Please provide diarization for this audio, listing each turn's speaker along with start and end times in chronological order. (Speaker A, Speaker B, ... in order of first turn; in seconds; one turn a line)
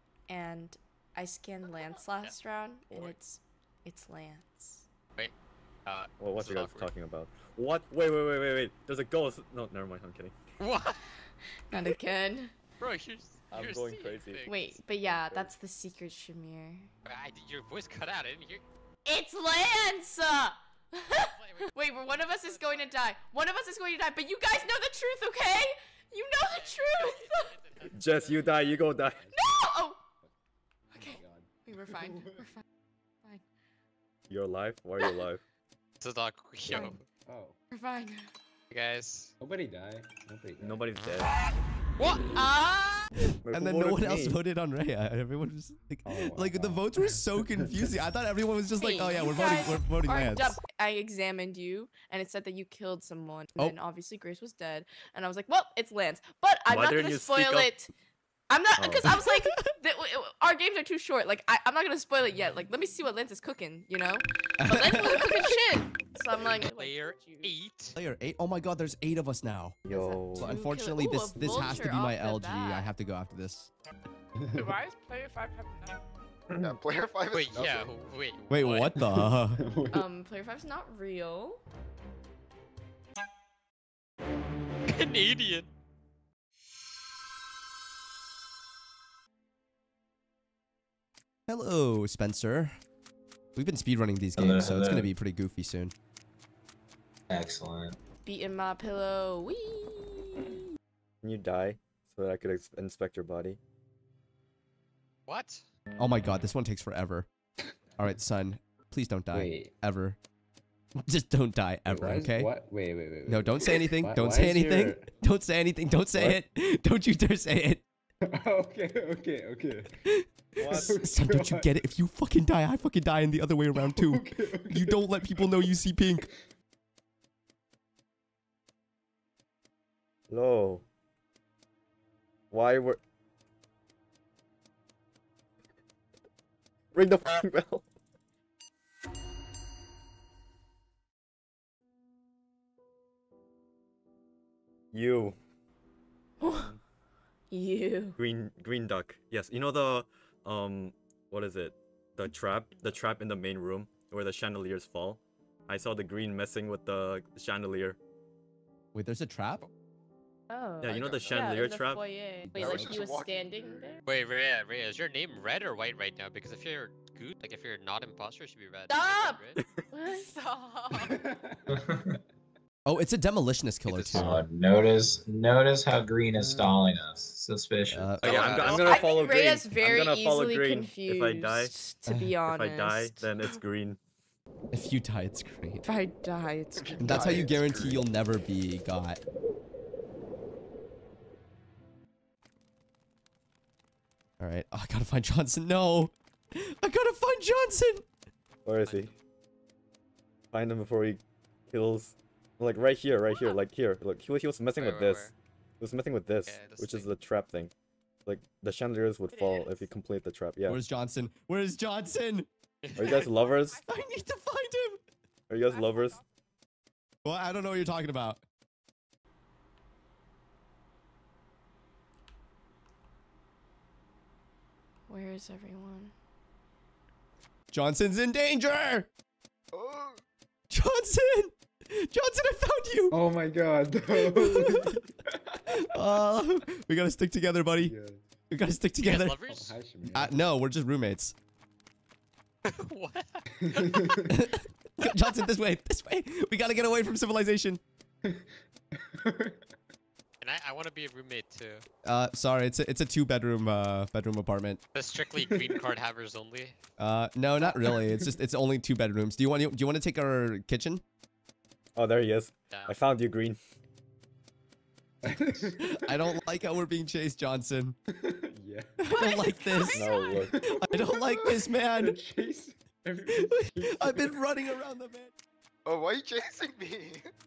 Speaker A: 0.3-4.8
Speaker B: 2.9-3.1
Speaker C: 5.9-6.9
Speaker B: 6.2-10.3
Speaker C: 10.6-11.1
Speaker A: 11.7-12.6
Speaker C: 12.8-14.7
Speaker B: 13.5-15.5
Speaker A: 14.5-16.9
Speaker C: 17.1-18.6
Speaker A: 19.1-27.6
Speaker C: 21.2-21.7
Speaker C: 26.4-29.2
Speaker B: 27.9-29.3
Speaker D: 29.0-29.5
Speaker A: 29.3-30.0
Speaker A: 30.9-32.6
Speaker D: 30.9-32.4
Speaker B: 34.3-35.4
Speaker C: 36.0-37.0
Speaker A: 36.7-37.0
Speaker D: 36.7-37.6
Speaker A: 37.7-38.3
Speaker C: 38.7-39.3
Speaker D: 39.4-40.9
Speaker B: 40.6-41.3
Speaker C: 42.0-42.2
Speaker A: 42.3-43.2
Speaker B: 43.4-44.4
Speaker E: 43.5-50.6
Speaker D: 46.0-47.9
Speaker A: 48.8-57.9
Speaker B: 56.7-57.7
Speaker A: 58.5-67.5
Speaker B: 58.8-59.2
Speaker E: 59.1-59.7
Speaker E: 64.6-65.6
Speaker C: 66.5-68.0
Speaker E: 68.0-69.8
Speaker B: 69.8-70.5
Speaker A: 69.9-72.9
Speaker E: 70.4-73.7
Speaker D: 71.4-71.8
Speaker D: 74.4-74.7
Speaker F: 74.6-76.0
Speaker G: 76.6-78.0
Speaker C: 77.3-79.1
Speaker E: 78.5-79.7
Speaker D: 79.0-80.1
Speaker A: 79.9-81.6
Speaker C: 84.9-85.7
Speaker E: 91.5-92.8
Speaker E: 93.5-95.9
Speaker H: 94.4-95.1
Speaker H: 97.3-98.0
Speaker A: 98.2-100.6
Speaker B: 101.2-103.6
Speaker C: 105.3-105.6
Speaker E: 106.0-107.3
Speaker E: 108.0-110.2
Speaker D: 109.3-109.7
Speaker E: 111.1-112.5
Speaker D: 111.9-115.1
Speaker E: 113.3-117.8
Speaker D: 118.2-119.9
Speaker E: 120.1-126.3
Speaker B: 120.6-121.1
Speaker D: 120.6-121.7
Speaker D: 123.8-125.0
Speaker B: 130.3-130.8
Speaker B: 132.5-133.0
Speaker B: 136.9-137.8
Speaker B: 144.9-145.4
Speaker A: 146.4-146.7
Speaker B: 146.4-146.8
Speaker A: 147.5-148.2
Speaker B: 148.2-158.0
Speaker E: 158.9-159.7
Speaker A: 160.5-164.0
Speaker B: 160.8-162.1
Speaker G: 161.1-161.4
Speaker E: 162.4-163.0
Speaker G: 162.6-164.0
Speaker C: 164.1-169.6
Speaker A: 168.9-169.4
Speaker A: 169.9-170.3
Speaker F: 170.0-171.2
Speaker D: 171.0-171.8
Speaker H: 171.7-172.2
Speaker E: 172.9-174.4
Speaker C: 173.9-174.2
Speaker H: 174.1-178.5
Speaker D: 176.4-176.7
Speaker E: 177.9-178.6
Speaker B: 178.2-181.7
Speaker C: 178.2-179.2
Speaker A: 178.6-183.3
Speaker B: 182.5-184.0
Speaker E: 184.7-185.8
Speaker A: 185.8-187.4
Speaker G: 186.8-187.5
Speaker E: 187.0-189.2
Speaker H: 187.1-188.0
Speaker E: 194.4-198.1
Speaker B: 198.7-199.1
Speaker C: 198.8-199.1
Speaker B: 200.5-207.7
Speaker C: 204.8-205.3
Speaker C: 206.5-207.1
Speaker B: 208.3-210.8
Speaker F: 209.3-209.9
Speaker E: 210.7-212.5
Speaker C: 212.8-213.3
Speaker B: 213.0-213.8
Speaker F: 213.0-214.2
Speaker E: 213.9-215.0
Speaker B: 215.5-216.2
Speaker F: 215.7-216.4
Speaker E: 217.2-218.4
Speaker A: 225.1-226.1
Speaker E: 227.7-229.1
Speaker G: 229.7-230.2
Speaker E: 230.7-233.2
Speaker D: 233.1-235.8
Speaker E: 234.1-235.0
Speaker E: 235.7-237.9
Speaker D: 237.8-238.2
Speaker E: 238.5-239.4
Speaker C: 239.0-239.8
Speaker D: 239.5-240.4
Speaker E: 240.1-241.3
Speaker C: 242.7-244.4
Speaker D: 243.6-244.4
Speaker E: 244.3-247.8
Speaker D: 248.2-249.8
Speaker C: 250.4-251.8
Speaker E: 252.1-254.8
Speaker C: 254.9-256.8
Speaker D: 255.4-255.7
Speaker E: 257.0-261.0
Speaker D: 257.7-258.3
Speaker B: 262.0-263.6
Speaker D: 265.2-266.1
Speaker E: 265.8-268.0
Speaker D: 268.1-269.0
Speaker E: 269.1-270.1
Speaker F: 269.1-270.5
Speaker B: 269.9-270.6
Speaker D: 270.5-274.4
Speaker E: 270.7-272.2
Speaker E: 273.3-275.3
Speaker G: 275.9-277.3